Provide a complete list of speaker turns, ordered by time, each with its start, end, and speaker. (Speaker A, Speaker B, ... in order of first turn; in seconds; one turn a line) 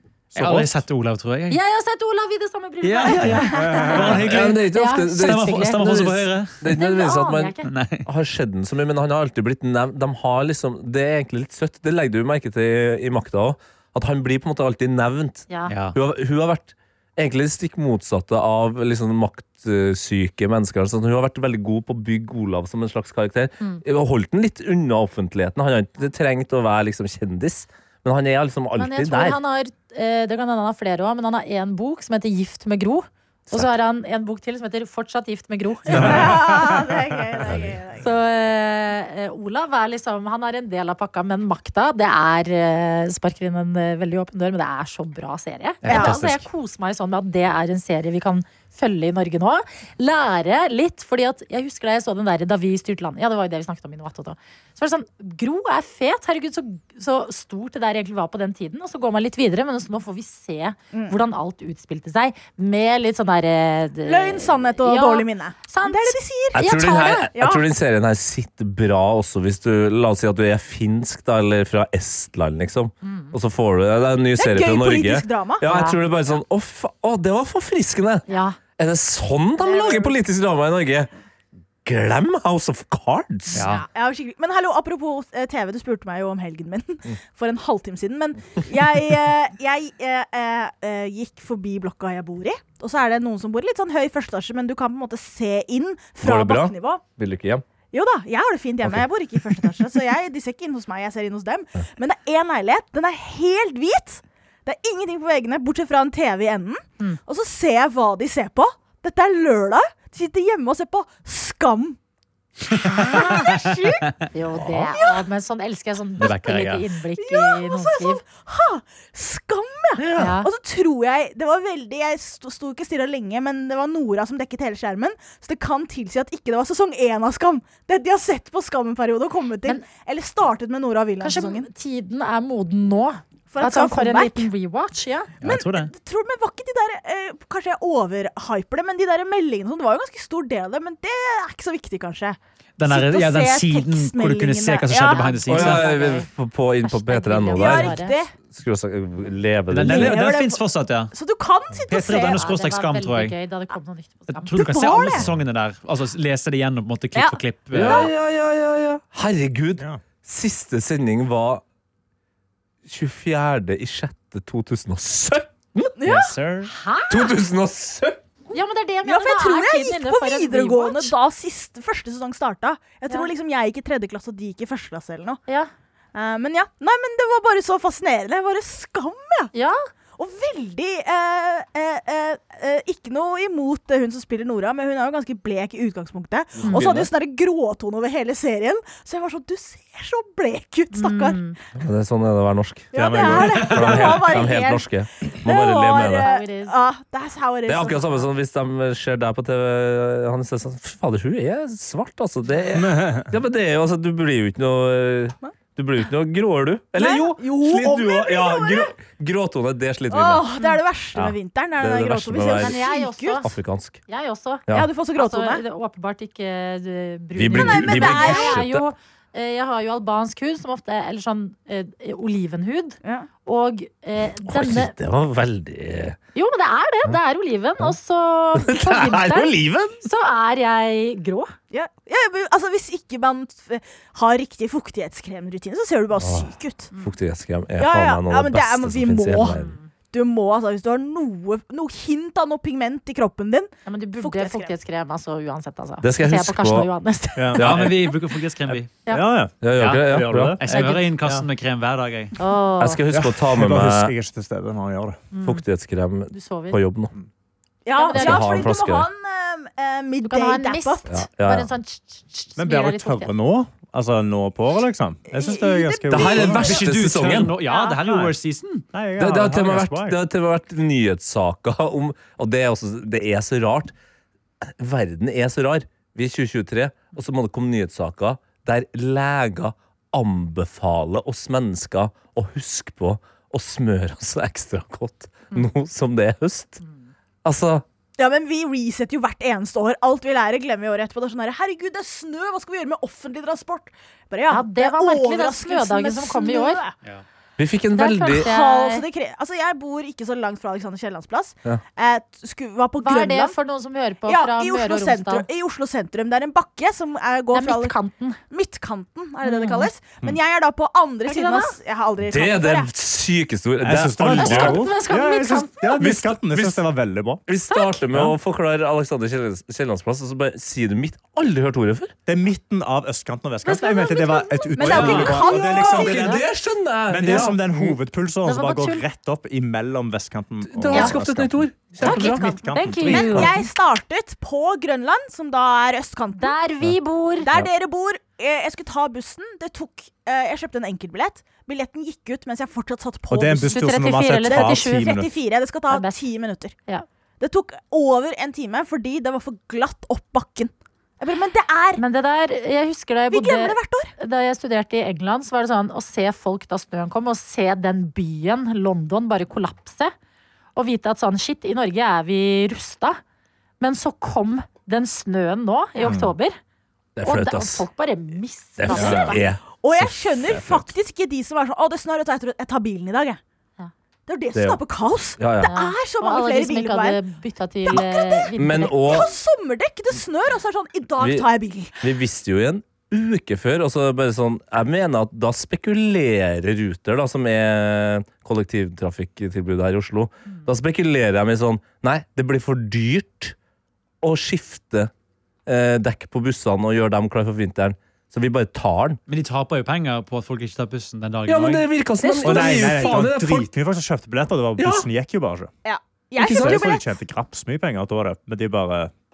Speaker A: 0.3-0.8
Speaker B: 0.3-1.6
Speaker C: 1.5-6.1
Speaker B: 2.8-6.6
Speaker A: 3.5-4.3
Speaker D: 4.1-29.4
Speaker C: 6.7-7.7
Speaker B: 7.7-8.1
Speaker C: 15.5-15.8
Speaker B: 15.7-16.0
Speaker C: 28.8-36.2
Speaker E: 35.9-38.1
Speaker A: 35.9-36.8
Speaker D: 37.5-37.7
Speaker C: 38.0-67.3
Speaker B: 45.8-46.5
Speaker E: 45.9-46.2
Speaker E: 60.9-61.2
Speaker E: 64.0-66.6
Speaker D: 66.5-78.3
Speaker E: 67.3-67.7
Speaker C: 73.0-73.3
Speaker E: 74.4-75.7
Speaker C: 75.7-76.0
Speaker C: 78.3-78.6
Speaker D: 78.8-81.1
Speaker E: 79.6-80.2
Speaker D: 81.8-83.7
Speaker C: 83.5-83.9
Speaker B: 83.6-83.8
Speaker E: 83.9-97.0
Speaker D: 96.2-97.7
Speaker E: 97.9-112.0
Speaker D: 98.8-99.8
Speaker E: 112.7-114.1
Speaker C: 112.8-113.6
Speaker C: 114.3-118.2
Speaker D: 114.6-114.9
Speaker E: 114.9-115.2
Speaker B: 116.2-116.8
Speaker E: 117.2-131.7
Speaker D: 120.0-120.4
Speaker C: 120.2-120.5
Speaker C: 131.2-135.3
Speaker E: 133.5-134.5
Speaker B: 135.4-135.9
Speaker E: 135.4-145.3
Speaker B: 142.8-145.9
Speaker C: 145.1-146.3
Speaker D: 145.5-150.2
Speaker C: 146.8-148.2
Speaker E: 147.5-148.3
Speaker B: 149.7-151.1
Speaker E: 149.8-152.5
Speaker B: 151.9-153.3
Speaker C: 152.2-154.7
Speaker B: 154.3-158.1
Speaker E: 154.5-155.3
Speaker E: 157.2-158.0
Speaker D: 157.7-161.6
Speaker D: 162.8-166.0
Speaker E: 166.0-166.3
Speaker B: 166.0-166.7
Speaker C: 166.7-167.4
Speaker D: 167.1-168.2
Speaker C: 168.5-171.2
Speaker E: 169.1-175.4
Speaker E: 176.1-179.5
Speaker E: 180.2-191.5
Speaker D: 186.7-187.0
Speaker C: 190.9-191.6
Speaker D: 191.8-196.3
Speaker E: 192.9-198.2
Speaker A: 192.9-194.0
Speaker B: 193.5-193.9
Speaker C: 196.2-196.7
Speaker D: 197.7-210.5
Speaker A: 202.7-203.3
Speaker E: 207.0-208.9
Speaker E: 210.1-213.5
Speaker D: 211.1-212.8
Speaker C: 212.6-213.5
Speaker D: 213.4-214.0
Speaker C: 214.1-224.9
Speaker E: 214.7-215.6
Speaker D: 217.4-218.8
Speaker E: 217.5-218.6
Speaker D: 224.5-226.2
Speaker C: 226.3-231.5
Speaker D: 228.6-230.0
Speaker E: 231.7-236.9
Speaker D: 236.2-239.8
Speaker E: 237.8-239.6
Speaker C: 239.4-239.9
Speaker E: 240.1-244.7
Speaker C: 243.9-247.6
Speaker D: 246.0-246.9
Speaker A: 247.4-247.9
Speaker D: 247.6-248.0
Speaker B: 247.6-248.9
Speaker A: 248.7-250.6
Speaker D: 249.6-250.6
Speaker B: 249.8-252.3
Speaker C: 250.7-251.1
Speaker A: 251.2-251.5
Speaker C: 252.4-253.0
Speaker D: 252.8-254.1
Speaker A: 253.1-255.2
Speaker C: 255.3-255.6
Speaker D: 255.4-257.1
Speaker C: 256.3-256.8
Speaker E: 257.9-261.0
Speaker C: 257.9-258.7
Speaker D: 258.1-259.1
Speaker C: 260.2-263.3
Speaker D: 261.1-261.7
Speaker A: 262.6-266.9
Speaker E: 265.3-266.6
Speaker D: 266.1-267.5
Speaker B: 266.4-268.9
Speaker C: 267.7-268.0
Speaker A: 268.0-268.4
Speaker A: 268.9-270.2
Speaker D: 269.2-273.9
Speaker D: 274.7-286.8
Speaker D: 287.4-287.9
Speaker E: 288.2-296.9
Speaker C: 294.5-296.8
Speaker D: 297.6-298.5
Speaker C: 297.9-299.1
Speaker E: 298.3-303.6
Speaker C: 303.0-305.5
Speaker E: 304.2-308.0
Speaker C: 307.5-308.4
Speaker E: 308.5-312.9
Speaker C: 309.4-309.9
Speaker C: 311.3-311.8
Speaker D: 312.2-314.9
Speaker A: 313.8-317.4
Speaker C: 314.3-316.1
Speaker D: 315.9-316.8
Speaker D: 317.5-322.1
Speaker C: 317.7-318.0
Speaker A: 322.3-326.4
Speaker C: 323.7-326.4
Speaker E: 324.7-326.2
Speaker D: 324.8-328.0
Speaker A: 327.1-333.6
Speaker C: 328.4-329.1
Speaker D: 330.7-332.5
Speaker C: 332.0-333.6
Speaker E: 333.1-336.6
Speaker D: 333.2-333.5
Speaker C: 336.3-337.5
Speaker E: 337.4-343.8
Speaker A: 343.3-345.3
Speaker C: 343.7-345.1
Speaker E: 344.4-346.8
Speaker C: 345.9-346.2
Speaker E: 347.4-352.0
Speaker C: 352.0-360.1
Speaker E: 353.3-354.1
Speaker C: 360.8-363.2
Speaker C: 363.8-366.6
Speaker A: 366.0-366.3
Speaker D: 367.2-367.9
Speaker C: 367.2-369.4
Speaker D: 368.8-370.8
Speaker E: 368.9-373.4
Speaker A: 368.9-369.3
Speaker E: 374.3-377.2
Speaker D: 374.6-374.8
Speaker D: 375.4-375.7
Speaker C: 375.6-379.3
Speaker E: 377.9-382.0
Speaker D: 378.6-379.3
Speaker D: 381.2-381.5
Speaker D: 382.0-393.6
Speaker D: 394.2-395.1
Speaker D: 395.7-399.2
Speaker B: 399.3-401.9
Speaker D: 401.5-403.7
Speaker E: 402.4-403.2
Speaker A: 402.4-405.7
Speaker D: 404.8-405.1
Speaker E: 405.9-407.1
Speaker D: 406.4-406.9
Speaker A: 406.4-409.1